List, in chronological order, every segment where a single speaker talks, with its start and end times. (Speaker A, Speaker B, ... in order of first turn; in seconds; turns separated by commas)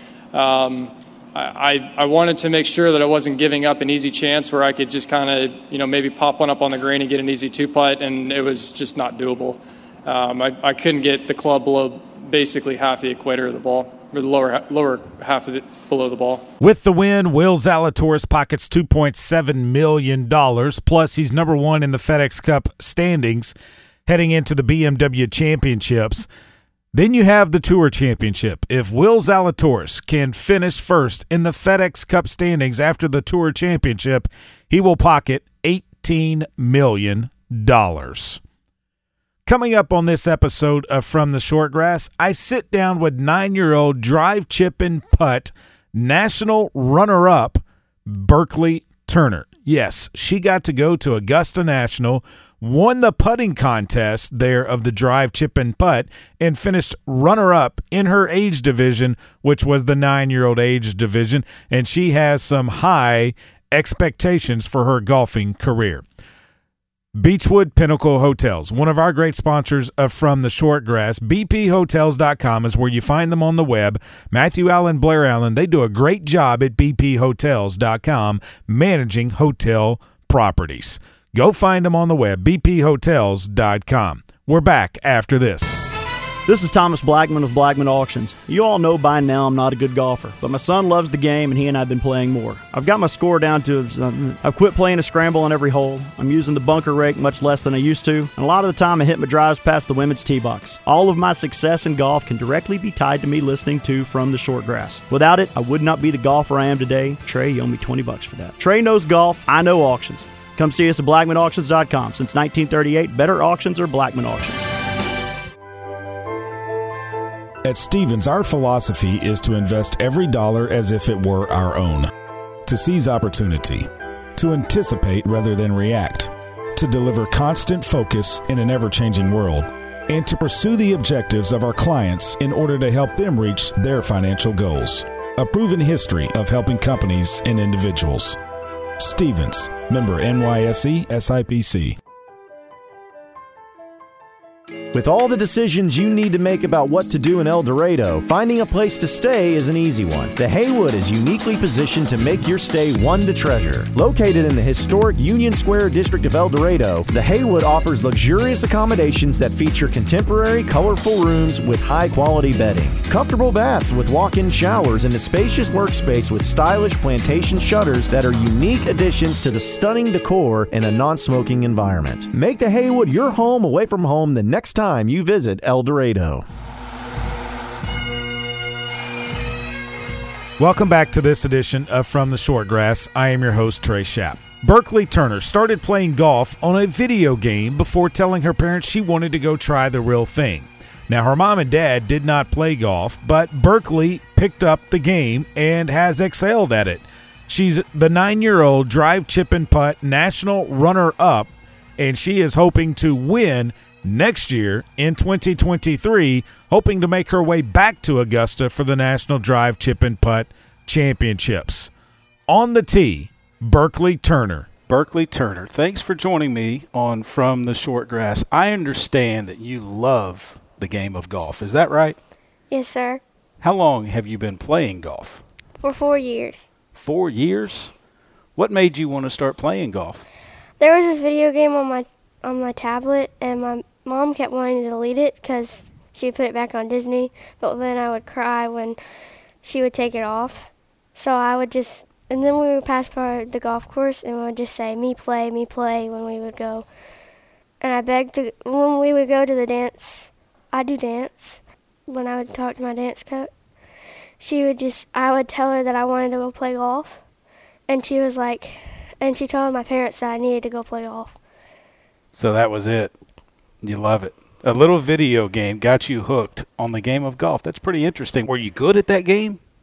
Speaker A: 0.3-16.5, Speaker B: 16.6-23.5, Speaker B: 24.1-26.2, Speaker B: 26.9-38.4, Speaker B: 39.5-66.0, Speaker B: 67.2-85.8, Speaker C: 86.5-114.7, Speaker B: 117.6-122.1, Speaker B: 122.7-138.4, Speaker B: 139.0-142.0, Speaker D: 144.9-176.4, Speaker B: 180.6-211.9, Speaker B: 212.5-214.7, Speaker E: 214.9-222.2, Speaker F: 222.7-223.2, Speaker E: 223.6-225.4, Speaker F: 225.8-226.7, Speaker E: 226.9-227.9, Speaker E: 228.6-230.2, Speaker F: 230.8-239.0, Speaker F: 239.6-246.9, Speaker F: 247.8-253.5, Speaker F: 254.4-257.2, Speaker F: 257.9-261.3, Speaker E: 262.3-263.1, Speaker E: 263.8-269.6